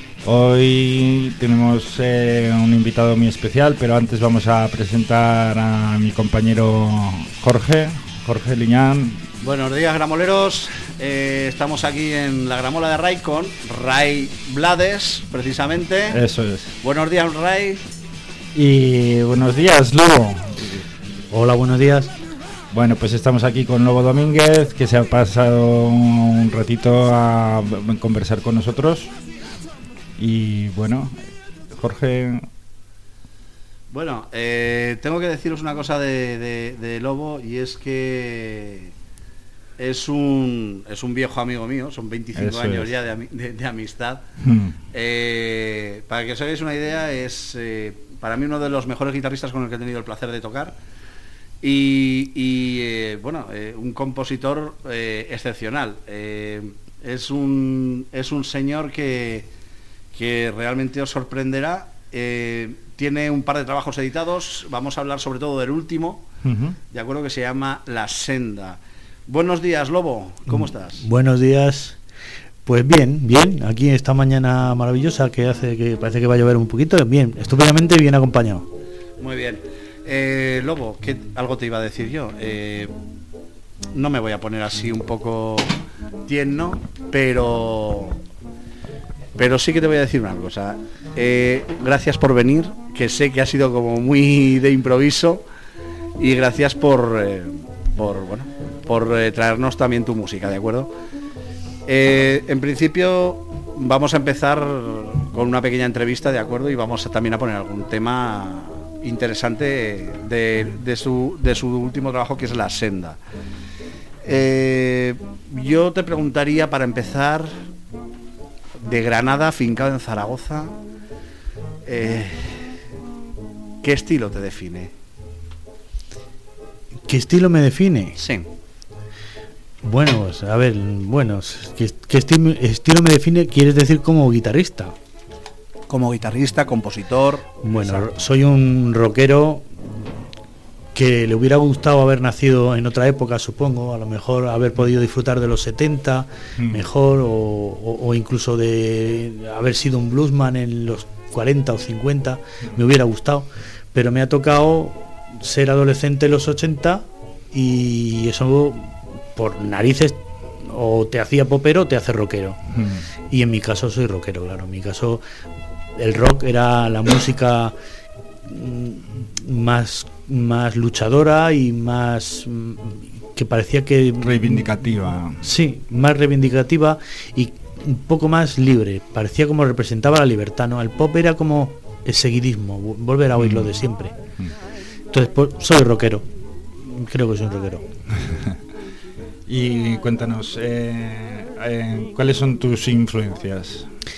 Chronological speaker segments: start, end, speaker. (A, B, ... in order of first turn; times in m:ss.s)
0:00.2-0:09.2 A
0:09.4-0:16.2 B
0:16.1-0:16.8 A
0:16.8-0:17.8 B
0:18.5-0:20.8 A
0:21.3-0:22.1 C
0:22.7-0:29.1 A
0:30.2-0:31.2 A
0:31.7-0:32.5 A
0:33.9-0:38.9 B
0:39.8-0:44.2 B
0:42.4-0:42.9 A
0:44.4-0:44.8 A
0:44.9-0:50.8 B
0:51.6-0:59.5 B
1:00.1-1:06.3 B
1:06.4-1:06.8 A
1:06.9-1:11.0 B
1:11.0-1:12.0 C
1:12.6-1:18.6 C
1:19.2-1:22.9 B
1:23.9-1:25.7 B
1:26.2-1:28.2 B
1:29.4-1:35.4 B
1:36.2-1:40.9 B
1:41.8-1:53.2 B
1:54.2-1:57.6 B
1:58.8-2:00.8 B
2:01.8-2:02.8 B
2:03.8-2:04.9 B
2:07.1-2:08.2 C
2:08.2-2:08.5 B
2:09.8-2:14.9 C
2:15.9-2:18.3 B
2:17.6-2:20.1 C
2:20.9-2:42.6 C
2:26.6-2:26.9 A
2:42.7-2:43.0 A
2:43.3-2:45.2 C
2:45.9-2:47.7 C
2:48.4-2:54.8 C
2:54.2-2:55.4 A
2:55.4-3:04.1 C
3:03.4-3:03.8 A
3:05.1-3:07.8 C
3:09.5-3:13.9 A